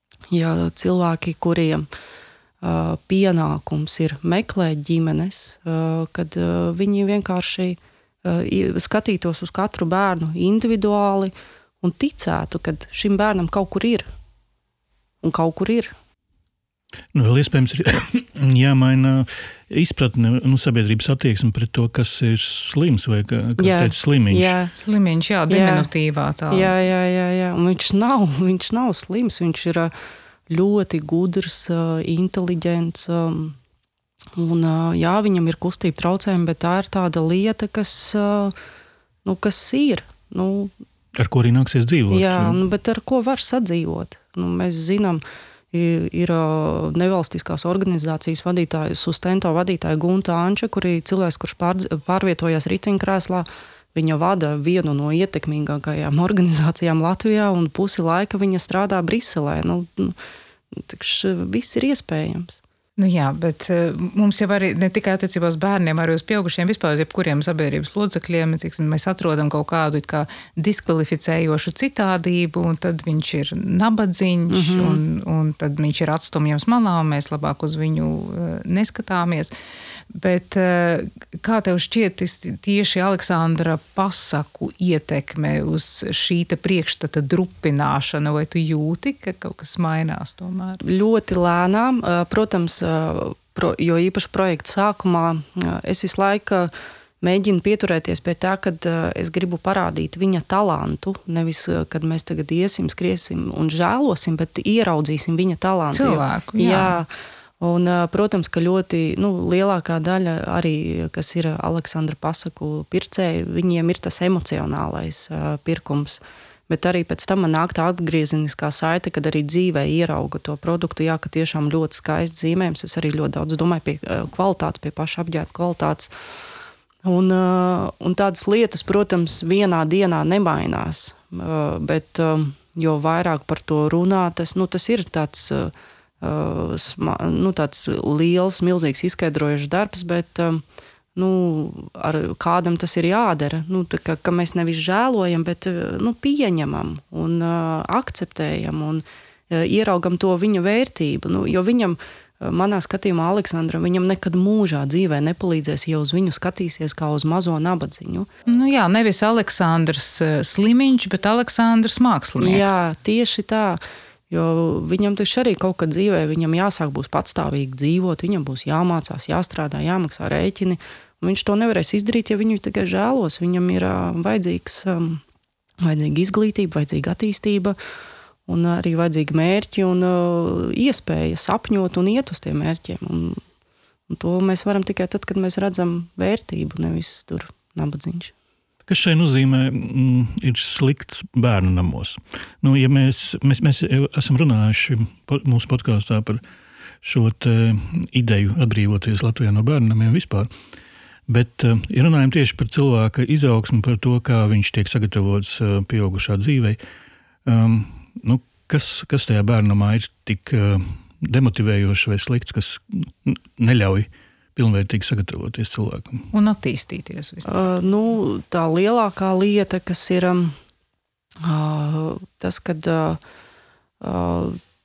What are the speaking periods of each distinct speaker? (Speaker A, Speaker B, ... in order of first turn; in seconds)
Speaker A: 0.3-1.9, 2.6-14.1, 15.2-15.9, 23.6-24.7, 25.5-25.9, 26.5-29.9, 30.5-33.6, 34.4-38.5, 39.2-40.7, 42.1-45.2, 45.7-60.1, 60.7-62.6, 74.5-75.0, 90.8-126.1, 127.0-140.6, 141.2-158.3, 162.4-175.2, 175.8-177.8, 178.5-183.4, 184.1-188.3, 217.5-220.6, 221.4-223.2, 224.0-224.6
Speaker B: 17.1-24.6, 41.1-42.6, 188.8-196.4, 197.0-200.5, 201.3-206.8, 207.4-216.3
Speaker C: 24.7-26.7, 63.0-79.5, 80.1-90.8, 105.9-107.0, 158.5-162.8, 216.3-217.7